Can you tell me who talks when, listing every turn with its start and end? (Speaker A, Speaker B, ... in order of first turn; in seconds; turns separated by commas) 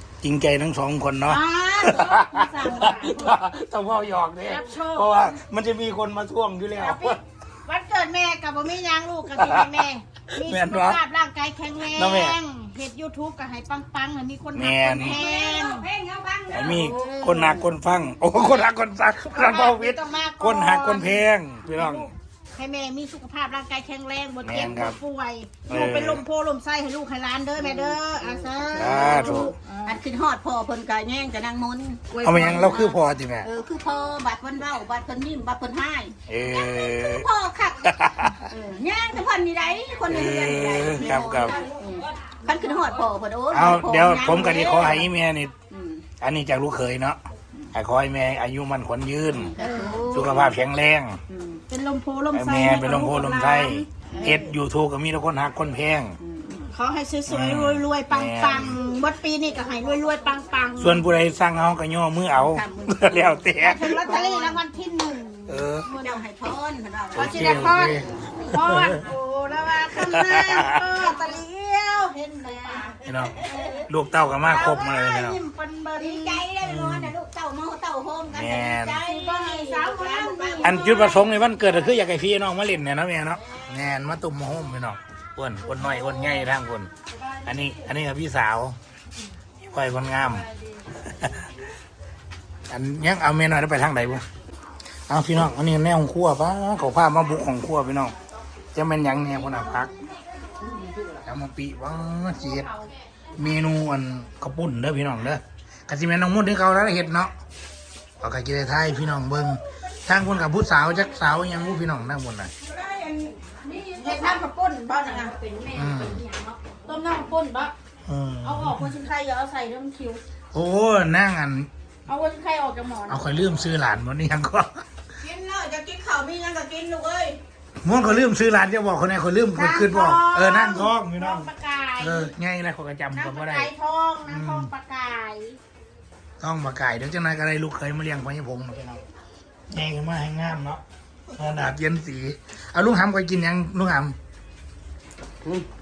Speaker A: 0.2-7.2, Speaker B: 1.3-3.4, Speaker B: 4.4-5.3, Speaker B: 6.8-15.9, Speaker A: 9.4-9.9, Speaker A: 10.4-11.0, Speaker A: 11.9-12.4, Speaker A: 14.5-15.2, Speaker C: 14.9-17.6, Speaker A: 16.5-22.1, Speaker B: 16.7-17.4, Speaker B: 19.2-30.0, Speaker A: 24.4-25.0, Speaker A: 25.7-26.2, Speaker C: 27.6-32.0, Speaker A: 28.7-29.5, Speaker B: 32.1-33.0, Speaker A: 32.2-33.5, Speaker C: 33.4-45.1, Speaker A: 36.3-37.3, Speaker A: 37.9-38.4, Speaker A: 40.1-41.6, Speaker A: 43.5-45.5, Speaker C: 45.7-46.0, Speaker A: 46.2-47.2, Speaker A: 47.7-49.5, Speaker C: 49.3-50.6, Speaker B: 49.6-50.0, Speaker A: 50.1-51.2, Speaker C: 51.3-51.6, Speaker B: 51.7-54.5, Speaker A: 52.3-56.2, Speaker C: 54.1-54.5, Speaker C: 56.2-56.7, Speaker B: 56.5-61.1, Speaker A: 57.3-58.8, Speaker A: 60.8-64.1, Speaker C: 62.4-64.6, Speaker B: 63.6-66.2, Speaker A: 65.5-65.8, Speaker C: 65.9-68.4, Speaker A: 67.1-69.0, Speaker B: 67.2-73.8, Speaker A: 70.0-70.8, Speaker C: 71.0-71.4, Speaker C: 72.5-72.9, Speaker A: 73.0-73.4, Speaker C: 73.4-73.8, Speaker A: 73.9-75.4, Speaker B: 74.4-76.5, Speaker C: 76.0-81.1, Speaker A: 76.6-77.1, Speaker A: 78.3-79.0, Speaker B: 79.1-81.3, Speaker A: 80.6-86.9, Speaker B: 87.2-87.8, Speaker A: 87.5-88.8, Speaker A: 89.6-90.5, Speaker A: 91.0-91.5, Speaker A: 92.7-94.2, Speaker A: 95.1-98.2, Speaker A: 98.7-99.9, Speaker A: 101.2-102.7, Speaker A: 103.4-107.3, Speaker A: 108.2-112.5, Speaker B: 112.9-117.7, Speaker C: 114.0-114.4, Speaker A: 115.7-116.2, Speaker A: 118.1-118.9, Speaker B: 118.4-120.2, Speaker A: 120.5-121.7, Speaker B: 122.1-123.4, Speaker A: 123.1-124.8, Speaker C: 125.2-126.0, Speaker B: 126.0-127.1, Speaker A: 127.8-133.7, Speaker B: 129.5-132.3, Speaker B: 133.1-135.6, Speaker A: 134.3-134.7, Speaker A: 136.4-139.0, Speaker A: 139.7-144.2